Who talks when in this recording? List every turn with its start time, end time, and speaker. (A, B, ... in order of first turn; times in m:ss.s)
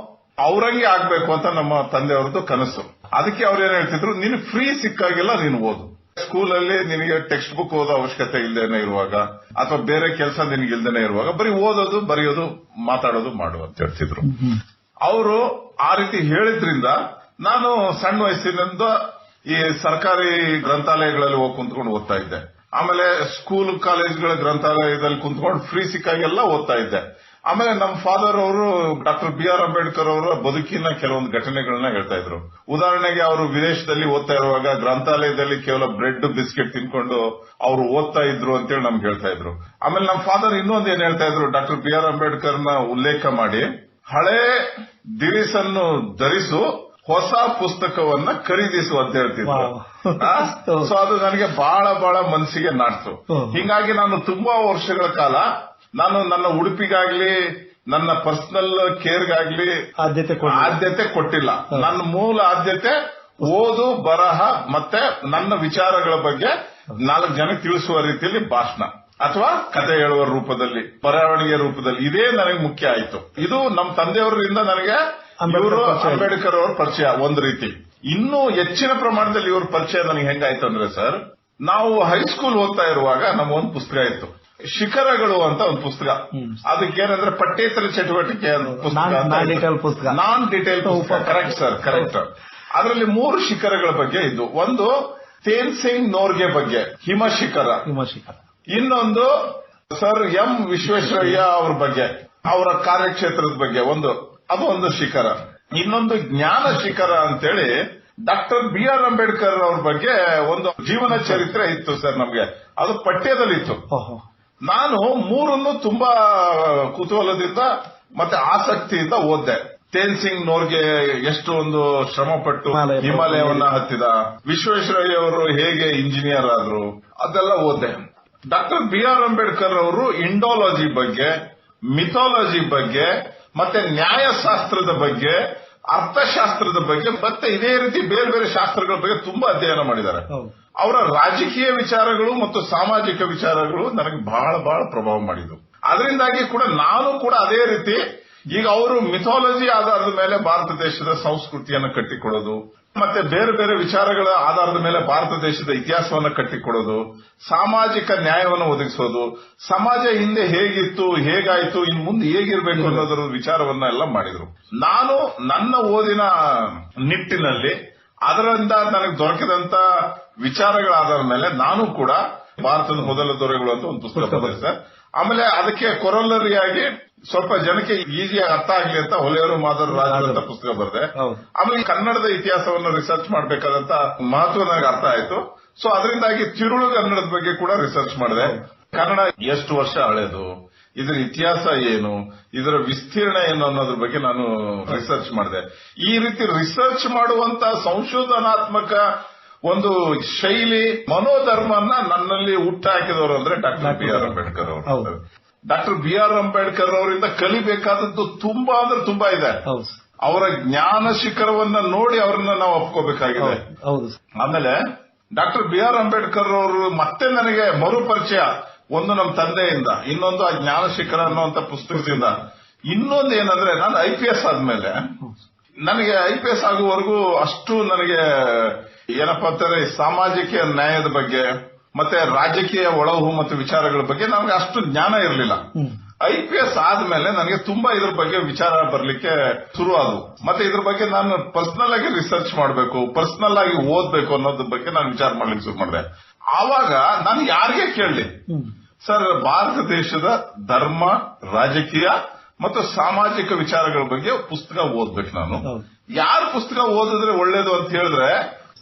0:00.4-0:14.4 A
0:15.0-0:18.9 A
0:19.5-0:44.6 A
0:45.2-0:55.4 A
0:49.4-0:50.9 B
0:53.3-0:53.6 B
0:56.0-0:57.3 A
0:57.9-0:59.7 A
1:00.0-1:00.8 B
1:00.4-1:34.9 A
1:15.4-1:16.3 B
1:26.3-1:26.6 B
1:28.6-1:30.2 B
1:30.8-1:32.1 B
1:35.4-1:37.8 A
1:37.8-1:38.4 B
1:38.7-1:39.3 A
1:39.9-1:47.7 A
1:41.1-1:41.4 B
1:48.3-1:53.8 A
1:51.1-1:51.4 B
1:53.9-1:54.2 B
1:54.7-2:08.0 A
2:02.7-2:03.8 B
2:08.5-2:11.3 A
2:11.9-2:15.4 A
2:15.9-2:20.3 A
2:20.8-2:28.0 A
2:28.5-2:47.7 A
2:42.7-2:43.1 B
2:48.3-2:49.8 A
2:50.4-3:19.0 A
2:52.9-2:53.2 B
2:54.1-2:54.6 B
2:59.9-3:00.4 B
3:01.2-3:01.4 B
3:19.7-3:29.6 A
3:23.8-3:25.1 B
3:29.7-3:29.9 B
3:30.2-3:33.6 A
3:33.4-3:34.2 B
3:34.4-3:34.7 A
3:35.3-3:45.0 A
3:41.3-3:42.3 B
3:45.8-3:55.6 A
3:56.2-4:08.3 A
4:09.0-4:15.6 A
4:16.2-4:18.3 A